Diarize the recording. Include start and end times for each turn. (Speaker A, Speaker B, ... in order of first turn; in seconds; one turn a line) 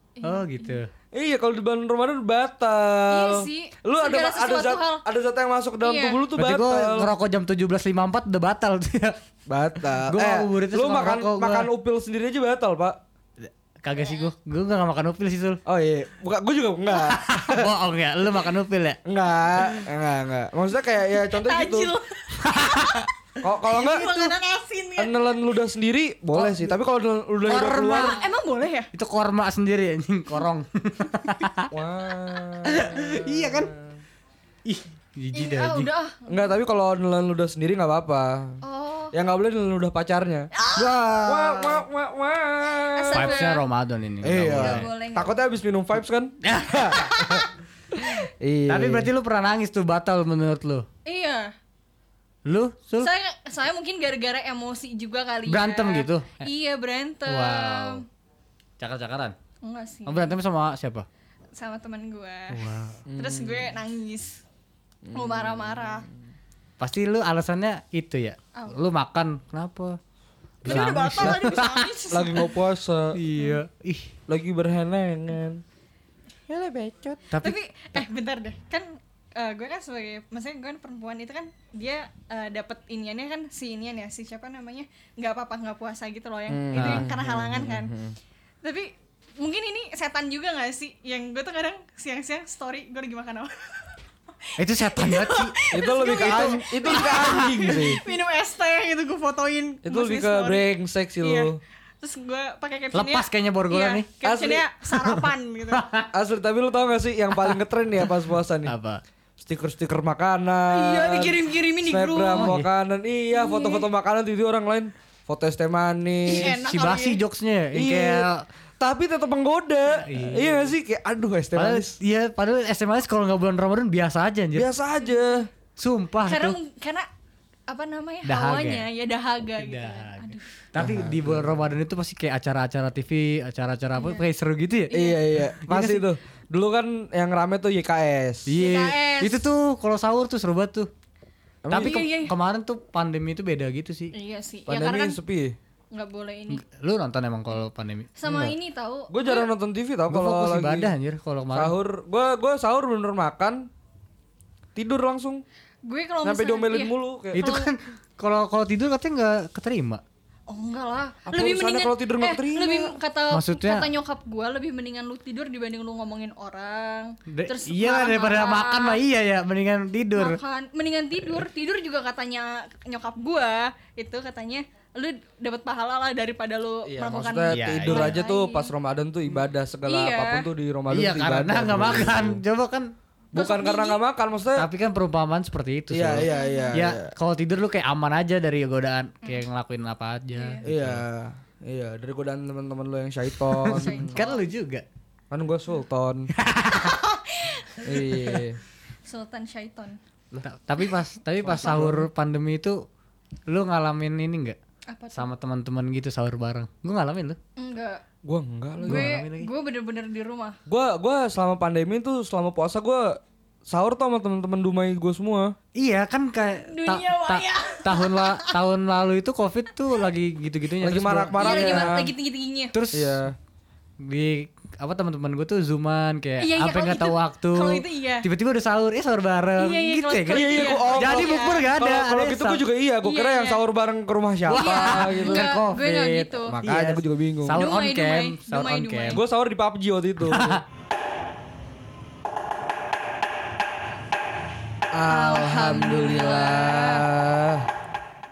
Speaker A: 0.2-0.8
Speaker B: 0.2-0.9
Speaker C: 1.1-7.1
Speaker A: 3.1-5.0
Speaker A: 5.8-6.2
Speaker B: 6.3-9.2
Speaker C: 9.5-13.0
Speaker B: 9.9-11.7
Speaker B: 13.4-15.6
Speaker C: 15.7-17.7
Speaker B: 16.9-19.0
Speaker C: 19.1-21.9
Speaker A: 21.2-23.0
Speaker B: 22.4-23.1
Speaker C: 23.4-24.1
Speaker A: 23.7-25.4
Speaker B: 24.1-24.3
Speaker C: 25.0-28.1
Speaker B: 26.3-26.8
Speaker B: 27.4-28.2
Speaker A: 28.0-28.9
Speaker B: 28.9-31.7
Speaker C: 31.7-33.9
Speaker B: 32.6-33.7
Speaker B: 34.6-35.9
Speaker A: 35.3-36.5
Speaker C: 36.3-38.6
Speaker A: 38.6-39.1
Speaker C: 39.1-40.5
Speaker A: 40.5-40.9
Speaker B: 40.7-41.8
Speaker C: 41.2-43.5
Speaker A: 42.8-43.6
Speaker B: 43.1-44.9
Speaker C: 44.2-49.1
Speaker A: 44.4-45.4
Speaker B: 46.4-47.4
Speaker B: 48.7-50.9
Speaker A: 51.0-51.5
Speaker B: 52.5-53.1
Speaker A: 53.0-58.0
Speaker B: 55.5-56.5
Speaker B: 57.3-58.0
Speaker B: 58.8-59.3
Speaker A: 59.6-60.4
Speaker B: 60.0-61.0
Speaker A: 61.5-64.4
Speaker B: 62.5-63.0
Speaker C: 63.0-63.7
Speaker C: 65.0-66.0
Speaker A: 65.1-66.0
Speaker B: 66.8-70.0
Speaker A: 68.5-68.8
Speaker B: 70.6-71.8
Speaker A: 70.6-72.5
Speaker C: 70.6-71.5
Speaker C: 72.1-73.1
Speaker B: 73.1-74.1
Speaker A: 73.3-73.6
Speaker C: 74.3-75.6
Speaker B: 76.5-78.0
Speaker A: 77.3-87.9
Speaker C: 86.5-88.2
Speaker B: 86.7-87.1
Speaker A: 88.6-93.9
Speaker B: 94.6-97.7
Speaker A: 94.8-100.7
Speaker C: 95.7-98.0
Speaker C: 99.8-101.6
Speaker A: 101.2-105.8
Speaker B: 102.9-104.1
Speaker C: 104.2-104.7
Speaker B: 104.9-106.1
Speaker C: 106.1-108.7
Speaker B: 107.3-109.0
Speaker C: 109.4-116.5
Speaker A: 110.7-112.5
Speaker B: 112.3-112.7
Speaker A: 113.3-113.8
Speaker A: 116.2-117.2
Speaker B: 116.3-118.4
Speaker C: 117.7-118.3
Speaker C: 118.8-122.0
Speaker B: 119.9-120.7
Speaker B: 121.5-124.7
Speaker C: 124.5-125.5
Speaker B: 125.8-126.5
Speaker A: 126.2-127.0
Speaker A: 127.7-130.6
Speaker B: 128.2-128.9
Speaker B: 129.6-136.1
Speaker C: 130.8-131.7
Speaker A: 133.9-134.2
Speaker A: 134.9-135.2
Speaker C: 134.9-138.5
Speaker B: 138.5-140.9
Speaker A: 138.6-139.5
Speaker C: 141.6-142.0
Speaker B: 141.7-144.1
Speaker A: 141.7-142.3
Speaker A: 144.1-145.2
Speaker C: 144.7-145.6
Speaker A: 145.9-146.6
Speaker B: 146.5-148.1
Speaker A: 148.2-149.5
Speaker C: 148.2-148.6
Speaker C: 149.1-150.9
Speaker B: 150.1-151.8
Speaker C: 151.5-153.7
Speaker C: 154.7-155.4
Speaker A: 155.8-157.7
Speaker C: 156.2-157.5
Speaker B: 157.3-160.0
Speaker A: 160.5-169.0
Speaker C: 161.3-162.9
Speaker B: 163.3-163.9
Speaker B: 167.3-170.4
Speaker A: 170.1-178.7
Speaker C: 176.8-182.4
Speaker B: 177.5-178.2
Speaker A: 179.8-180.5
Speaker B: 180.9-182.9
Speaker C: 183.3-184.7
Speaker A: 183.3-184.0
Speaker B: 184.6-191.0
Speaker C: 185.9-187.1
Speaker A: 186.2-186.8
Speaker A: 190.3-190.6
Speaker C: 190.6-194.2
Speaker B: 193.6-194.8
Speaker A: 193.7-194.4
Speaker C: 195.3-196.3
Speaker B: 196.4-197.0
Speaker A: 196.7-198.4
Speaker C: 197.8-198.6
Speaker A: 199.1-200.0
Speaker B: 200.3-202.8
Speaker A: 201.4-201.9
Speaker C: 201.4-202.1
Speaker B: 203.5-204.6
Speaker A: 204.9-205.3
Speaker B: 205.1-207.4
Speaker A: 207.6-208.0
Speaker C: 208.2-209.1
Speaker A: 208.8-210.6
Speaker B: 208.8-209.5
Speaker C: 210.7-215.5
Speaker B: 215.8-221.9
Speaker A: 216.6-218.5
Speaker C: 220.8-222.1
Speaker A: 221.3-222.7
Speaker B: 222.7-223.2
Speaker C: 222.9-223.3
Speaker B: 224.0-232.6
Speaker A: 226.4-228.3
Speaker A: 229.6-231.7
Speaker C: 230.3-235.5
Speaker A: 233.0-233.6
Speaker B: 234.5-239.2
Speaker A: 234.5-236.6
Speaker C: 236.5-237.6
Speaker A: 237.5-239.2
Speaker C: 239.1-240.6
Speaker B: 240.2-240.6
Speaker C: 244.9-247.6
Speaker A: 245.1-247.1